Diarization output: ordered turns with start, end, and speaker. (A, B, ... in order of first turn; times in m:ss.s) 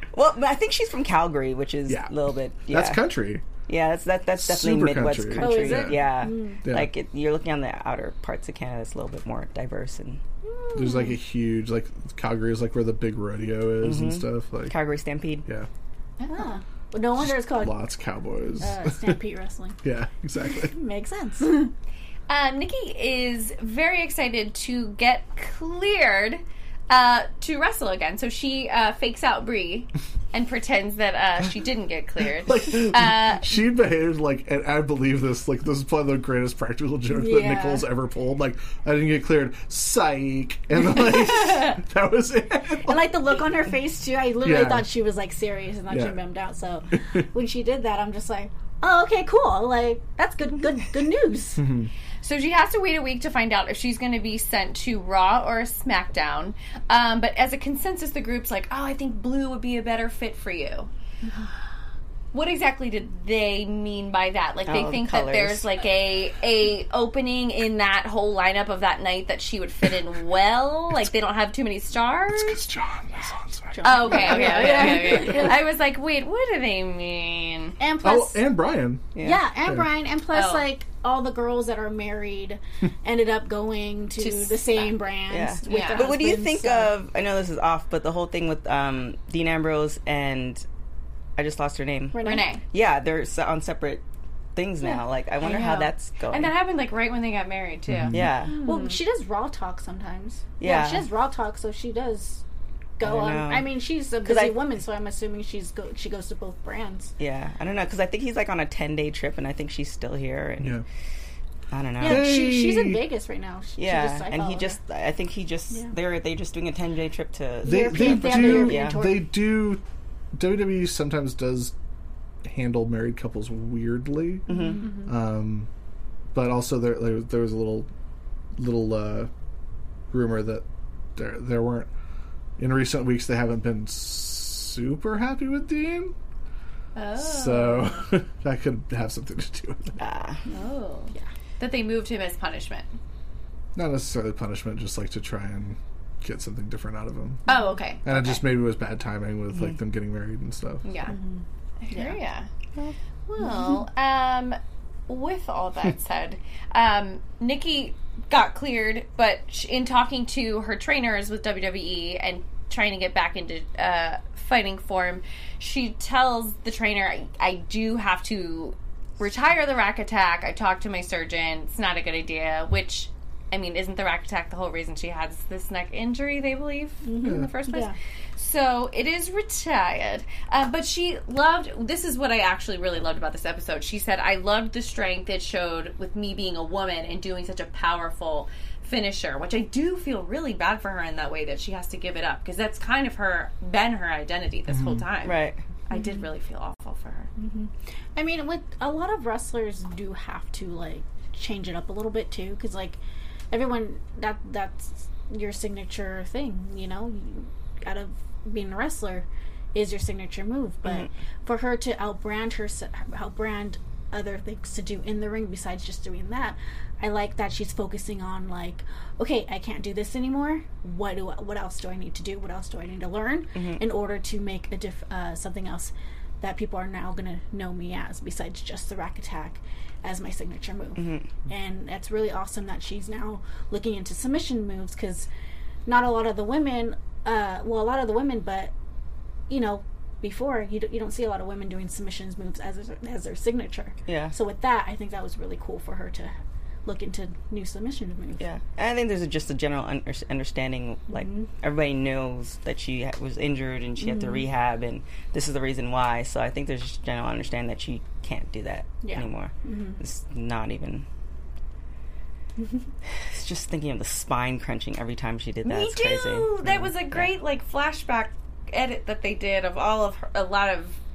0:00.1-0:03.0 A
0:02.7-0:03.4 B
0:03.7-0:10.2 A
0:04.4-0:06.1 B
0:05.4-0:06.6 C
0:06.6-0:06.9 B
0:10.4-0:11.2 C
0:10.7-0:14.7 B
0:13.8-0:15.4 A
0:16.2-0:16.5 D
0:16.3-0:17.8 C
0:17.2-0:19.2 B
0:18.6-0:19.8 C
0:19.8-0:20.7 B
0:20.5-0:21.7 C
0:22.3-0:33.5 D
0:32.4-0:43.4 B
0:37.1-0:37.8 C
0:42.8-0:51.6 C
0:44.4-0:44.9 B
0:45.9-0:46.2 B
0:51.6-0:51.9 B
0:52.2-1:00.9 D
1:02.3-1:12.6 D
1:04.7-1:05.6 A
1:12.3-1:15.5 B
1:13.7-1:15.6 C
1:13.8-1:17.8 D
1:17.8-1:18.4 C
1:18.0-1:19.1 B
1:19.1-1:19.4 A
1:19.2-1:26.9 C
1:20.3-1:20.7 D
1:24.2-1:25.0 D
1:25.3-1:30.6 A
1:25.6-1:26.1 D
1:31.4-1:34.0 A
1:32.1-1:32.6 C
1:32.2-1:32.6 D
1:34.6-1:36.5 A
1:35.4-1:39.0 D
1:37.9-1:38.3 B
1:38.1-1:38.5 A
1:38.6-1:42.4 C
1:40.6-1:41.1 A
1:43.0-1:47.1 C
1:43.0-1:44.6 A
1:47.2-1:50.8 A
1:51.7-1:52.3 A
1:52.0-1:53.0 B
1:52.0-1:54.8 C
1:53.8-1:59.1 A
1:57.6-1:59.2 C
1:57.6-1:59.8 B
2:00.3-2:01.7 B
2:02.4-2:04.5 B
2:04.5-2:04.8 A
2:04.5-2:05.1 C
2:05.0-2:05.7 B
2:06.3-2:07.9 B
2:08.6-2:09.3 B
2:10.1-2:10.6 B
2:11.2-2:11.9 B
2:12.6-2:16.1 B
2:16.9-2:18.0 D
2:17.2-2:20.0 B
2:20.0-2:20.4 A
2:20.5-2:22.9 D
2:23.7-2:27.4 B
2:27.5-2:28.4 D
2:28.0-2:30.8 B
2:30.8-2:31.1 D
2:31.0-2:32.2 C
2:31.8-2:32.5 D
2:33.3-3:15.4 D
2:57.0-2:57.9 C
2:57.2-2:57.5 B
3:14.7-3:15.0 B
3:15.2-3:15.6 A
3:15.9-3:17.3 D
3:15.9-3:16.3 C
3:17.4-3:23.0 C
3:23.5-3:55.3 C
3:43.5-3:43.8 A
3:51.0-3:51.3 A
3:55.8-3:58.7 C
3:59.5-4:06.3 C
4:04.0-4:04.3 A
4:06.8-4:08.4 C
4:08.4-4:21.0 A
4:11.1-4:11.5 C
4:14.0-4:14.4 C
4:19.0-4:20.0 C
4:23.2-4:27.3 A
4:25.6-4:31.0 D